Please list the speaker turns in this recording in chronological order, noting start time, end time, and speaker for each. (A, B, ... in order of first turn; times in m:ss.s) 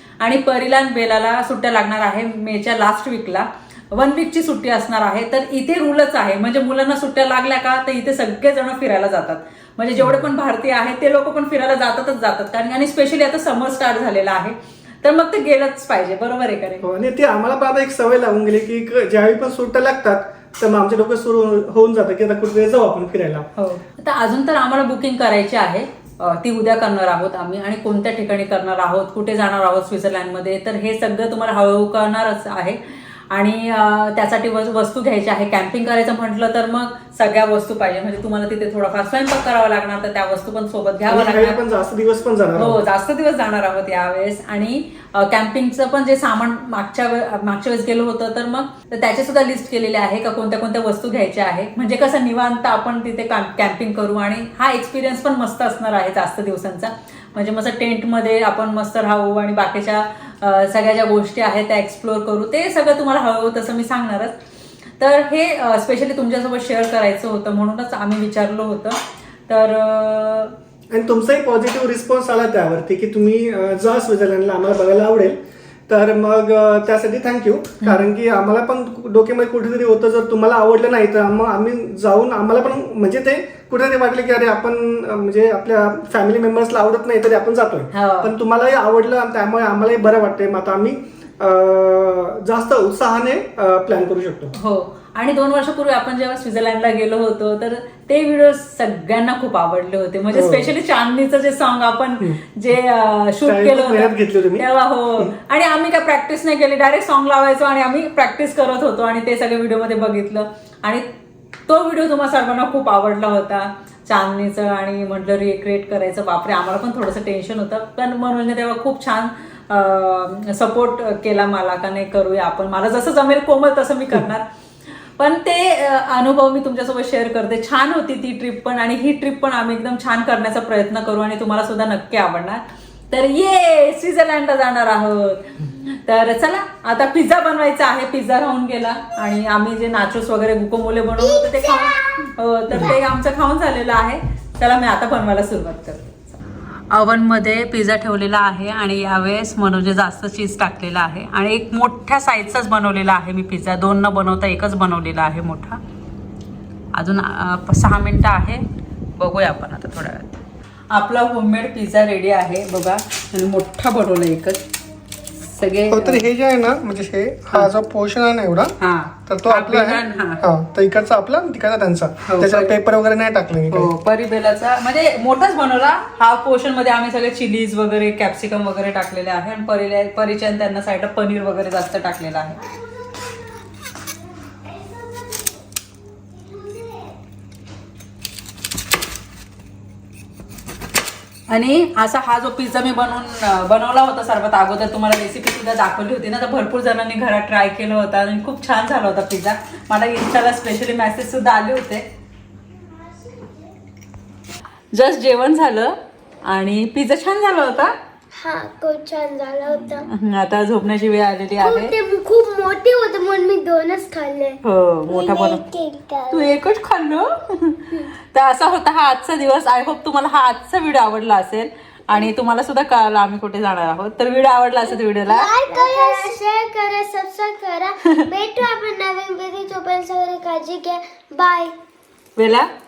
0:00.2-0:16.9 A
0:10.0-0:10.3 B
0:16.8-0:23.5 B
0:23.6-0:41.6 A
0:41.1-0:42.8 B
0:42.6-1:04.4 A
1:05.0-1:10.6 A
1:10.9-1:15.4 B
1:15.9-1:34.5 B
1:27.9-1:28.3 A
1:34.6-1:51.0 A
1:40.3-1:40.7 B
1:43.4-1:44.7 B
1:51.7-2:04.5 A
2:05.2-2:35.8 A
2:36.9-2:38.6 A
2:39.2-2:40.4 A
2:40.9-2:44.6 A
2:45.4-2:46.3 A
2:45.9-2:48.8 B
2:48.8-2:50.5 A
2:49.3-2:53.9 B
2:52.3-2:52.7 A
2:53.7-3:02.6 A
3:04.5-3:05.6 C
3:06.3-3:07.1 C
3:11.5-3:22.1 A
3:23.0-3:23.6 C
3:24.9-3:28.0 A
3:28.3-3:30.1 C
3:29.7-3:32.0 A
3:31.6-3:36.6 C
3:34.6-3:35.6 A
3:36.3-3:46.2 A
3:45.3-3:51.7 C
3:52.4-3:52.7 A